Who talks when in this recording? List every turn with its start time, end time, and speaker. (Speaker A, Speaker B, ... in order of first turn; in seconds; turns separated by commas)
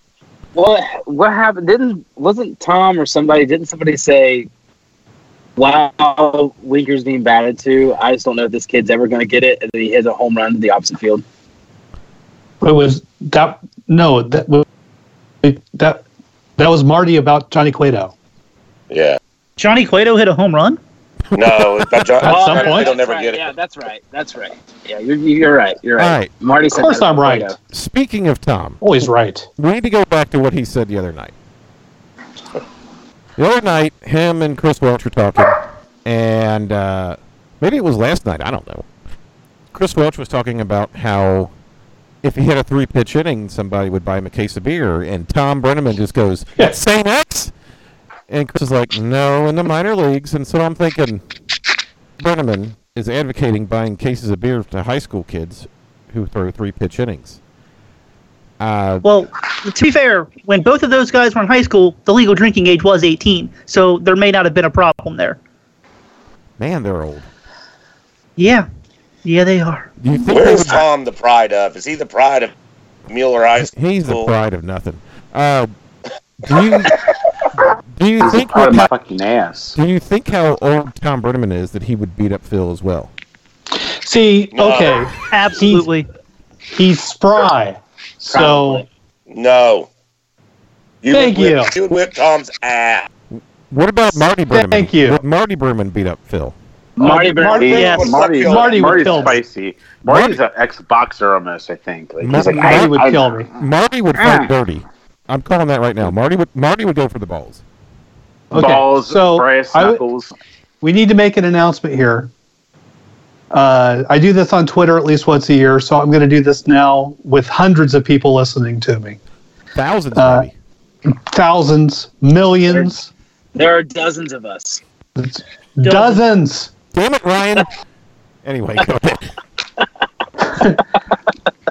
Speaker A: 0.6-4.5, Speaker A: 5.6-11.2, Speaker B: 12.6-14.7, Speaker B: 15.4-16.0, Speaker B: 16.6-18.1, Speaker C: 18.9-19.2, Speaker D: 19.6-20.8, Speaker C: 21.4-23.5, Speaker B: 22.2-22.9, Speaker A: 22.2-27.6, Speaker E: 26.0-26.3, Speaker B: 26.7-27.5, Speaker E: 27.7-28.8, Speaker B: 28.8-29.5, Speaker E: 29.6-31.3, Speaker E: 33.4-38.9, Speaker E: 39.7-41.5, Speaker E: 42.2-47.5, Speaker E: 48.3-51.2, Speaker E: 52.2-57.4, Speaker E: 58.6-59.1, Speaker D: 59.0-65.4, Speaker E: 66.6-67.3, Speaker D: 68.4-68.7, Speaker D: 69.2-69.9, Speaker E: 70.0-70.8, Speaker C: 70.3-72.5, Speaker C: 73.1-74.3, Speaker E: 73.6-75.7, Speaker E: 76.4-77.0, Speaker E: 77.9-78.9, Speaker F: 78.2-79.8, Speaker E: 79.8-83.1, Speaker B: 84.0-85.9, Speaker C: 84.5-85.1, Speaker D: 85.3-86.1, Speaker B: 86.7-88.9, Speaker A: 88.3-88.8, Speaker C: 89.3-89.9, Speaker C: 91.0-93.1, Speaker B: 91.1-91.8, Speaker E: 93.3-96.6, Speaker B: 94.1-95.2, Speaker A: 97.0-98.1, Speaker B: 97.0-99.4, Speaker C: 97.4-99.3, Speaker F: 97.5-103.4, Speaker E: 100.1-100.4, Speaker E: 102.2-103.0, Speaker B: 102.3-103.5, Speaker E: 103.6-107.6, Speaker F: 104.2-104.5, Speaker B: 108.5-110.0, Speaker F: 108.5-110.3, Speaker B: 110.8-112.3, Speaker B: 113.5-119.2, Speaker E: 119.8-120.5, Speaker B: 120.2-120.5, Speaker B: 121.3-123.1, Speaker A: 122.7-122.9, Speaker A: 123.5-124.8, Speaker B: 125.2-126.7, Speaker D: 125.8-126.2, Speaker E: 126.9-127.7, Speaker E: 128.4-129.3, Speaker B: 130.5-130.8